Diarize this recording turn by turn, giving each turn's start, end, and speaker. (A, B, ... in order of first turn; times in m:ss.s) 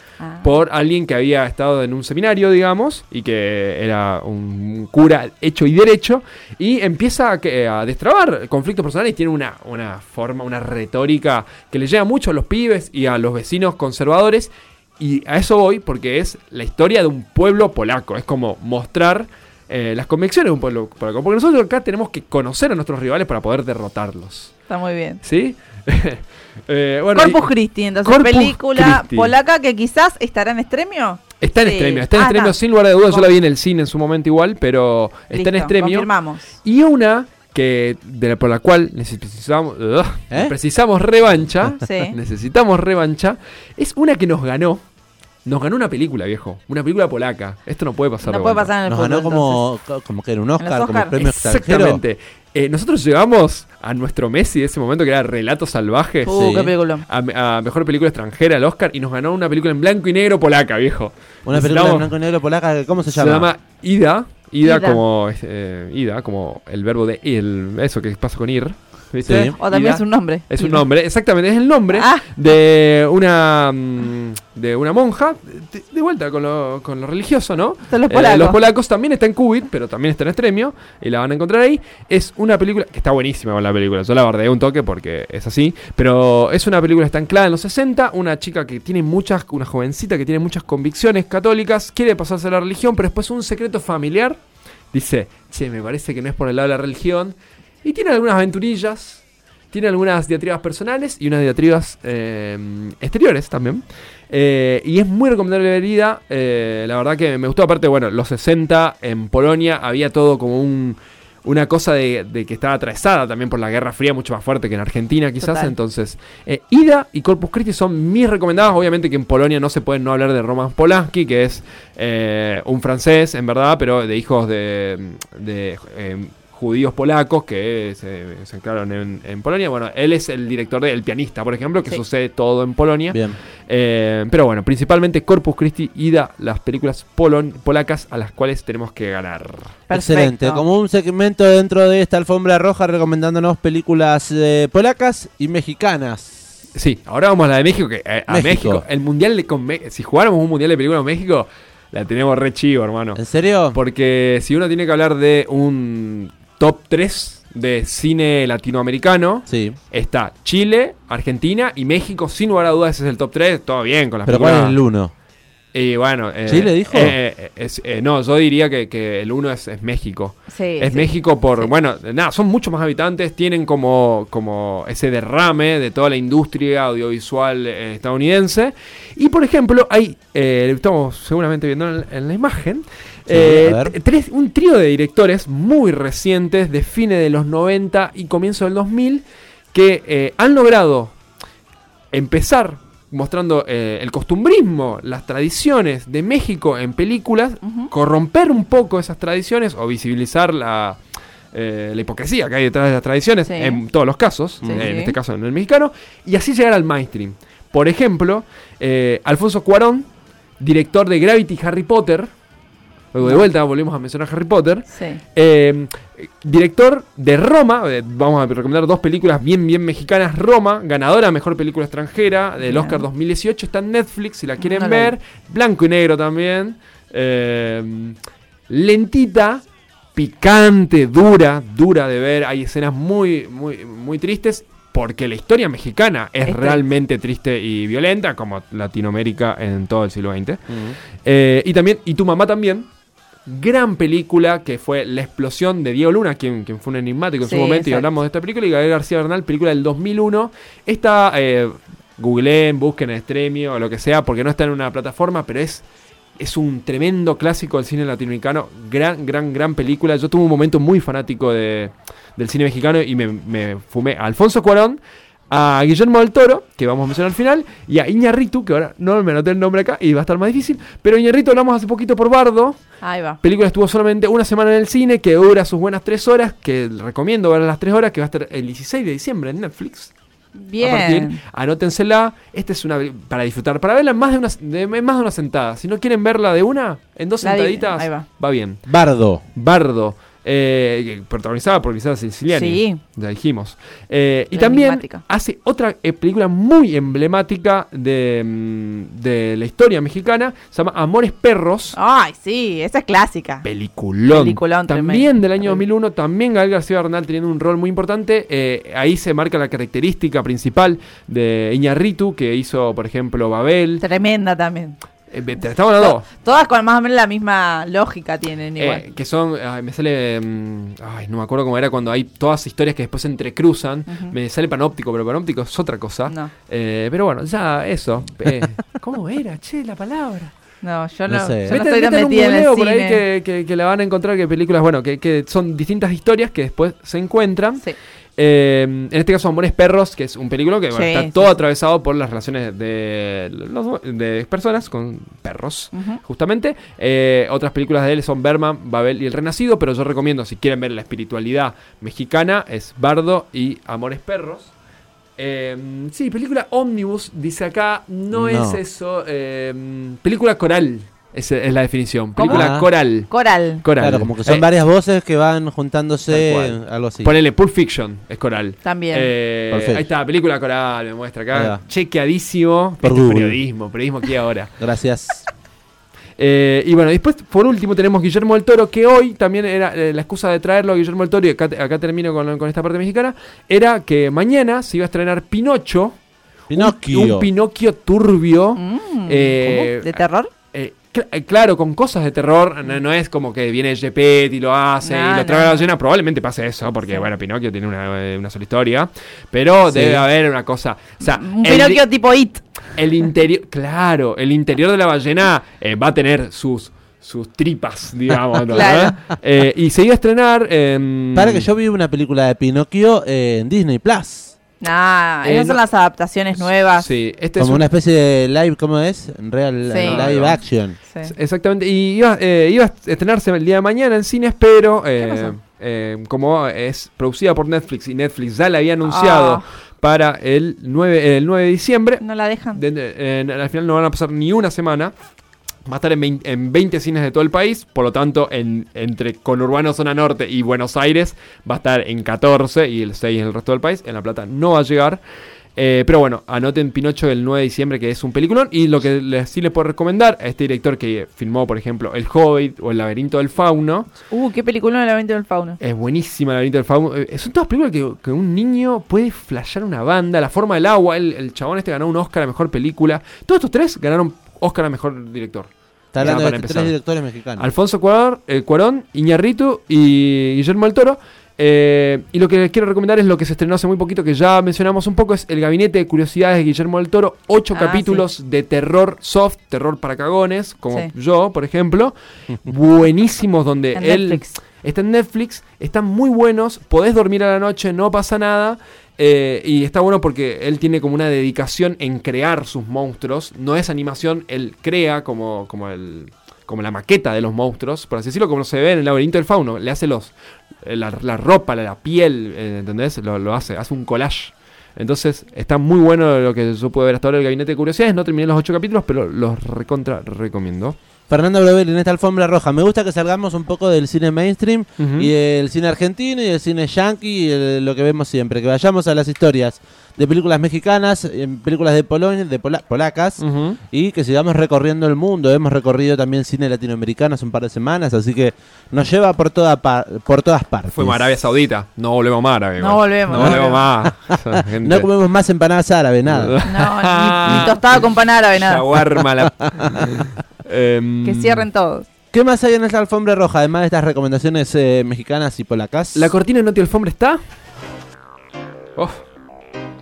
0:00.2-0:00.5 A
0:00.4-0:24.5 B
0:24.7-0:25.2 A
0:25.2-0:29.3 B
0:27.1-0:32.6 A
0:31.4-0:36.1 B
0:35.3-0:36.5 A
0:36.6-0:44.8 B
0:41.8-0:42.2 A
0:45.4-0:48.7 B
0:48.2-0:49.6 A
0:48.8-0:52.0 C
0:50.6-0:51.2 A
0:51.2-1:02.1 B
0:56.2-0:57.0 A
0:56.3-0:56.7 C
1:01.4-1:03.5 C
1:03.1-1:34.4 B
1:04.6-1:05.0 A
1:09.2-1:09.5 C
1:09.6-1:10.8 A
1:11.9-1:12.2 A
1:17.9-1:18.6 A
1:34.9-2:19.8 B
1:55.4-1:55.7 A
2:13.1-2:13.4 C
2:19.9-2:20.6 A
2:19.9-2:26.4 C
2:26.7-2:33.2 B
2:28.3-2:28.8 C
2:33.2-2:33.8 C
2:33.7-2:44.8 B
2:39.5-2:39.8 C
2:44.2-2:45.1 C
2:45.7-3:11.1 B
2:46.5-2:47.2 C
2:50.5-2:51.7 A
3:03.3-3:03.9 C
3:12.1-3:21.0 B
3:21.5-3:30.0 B
3:23.5-3:23.8 A
3:24.6-3:25.1 A
3:30.6-3:32.3 B
3:33.1-3:48.2 B
3:34.9-3:35.2 A
3:42.6-3:43.0 A
3:44.6-3:45.1 A
3:48.7-3:49.6 B
3:50.1-4:00.6 B
3:56.4-3:56.8 A
4:00.7-4:01.0 C
4:01.2-4:02.9 B
4:03.4-4:15.8 B
4:07.4-4:08.1 A
4:16.4-4:32.8 B
4:33.0-4:33.4 A
4:33.4-4:40.1 B
4:40.5-4:41.4 A
4:40.8-4:48.8 B
4:47.4-4:48.2 A
4:48.9-4:49.4 C
4:49.6-5:02.0 B
4:52.5-4:53.0 A
4:54.5-4:55.2 A
5:01.9-5:03.6 A
5:03.6-5:14.0 B
5:04.3-5:05.8 A
5:14.0-5:15.0 A
5:15.3-5:16.2 B
5:16.0-5:19.0 A
5:18.8-5:30.5 B
5:30.8-5:33.2 A
5:31.3-5:31.8 C
5:31.7-5:37.8 B
5:38.4-5:54.7 B
5:40.9-5:41.5 A
5:45.9-5:46.2 A
5:55.4-6:03.3 B
5:58.3-5:58.8 C
6:02.4-6:02.7 A
6:02.5-6:02.8 C
6:03.3-6:03.8 A
6:03.8-6:04.7 B
6:04.0-6:07.3 C
6:06.3-6:14.7 B
6:08.8-6:09.3 A
6:09.7-6:10.0 C
6:11.5-6:11.8 C
6:13.0-6:13.6 C
6:14.8-6:15.4 C
6:16.4-6:26.2 B
6:26.7-6:27.5 C
6:26.7-6:30.2 B
6:28.8-6:30.5 A
6:30.7-6:42.0 B
6:35.0-6:35.8 A
6:39.9-6:40.2 C
6:41.2-6:42.6 A
6:43.0-6:51.7 B
6:48.7-6:49.1 A
6:51.3-6:54.5 C
6:54.8-6:57.0 A
6:55.4-6:55.8 B
6:56.6-6:57.8 B
6:57.6-7:01.0 C
6:59.9-7:00.2 A
7:00.0-7:00.6 B
7:01.2-7:12.2 B
7:05.2-7:05.5 A
7:09.0-7:09.6 A
7:12.2-7:12.8 A
7:12.7-7:15.1 B
7:15.9-7:25.2 B
7:25.8-7:34.1 B
7:34.3-7:35.8 A
7:35.8-7:46.9 B
7:46.1-7:47.7 C
7:47.6-8:31.0 B
7:57.7-7:58.2 A
8:03.9-8:04.6 A
8:31.3-8:51.2 C
8:35.0-8:35.3 B
8:43.4-8:43.8 B
8:50.9-8:55.1 B
8:52.8-8:53.8 A
8:53.3-8:56.5 C
8:56.3-9:01.6 B
8:56.6-8:58.8 A
8:57.4-8:57.7 C
8:59.4-9:00.0 C
9:01.2-9:02.1 A
9:02.3-9:06.3 C
9:06.1-9:07.4 B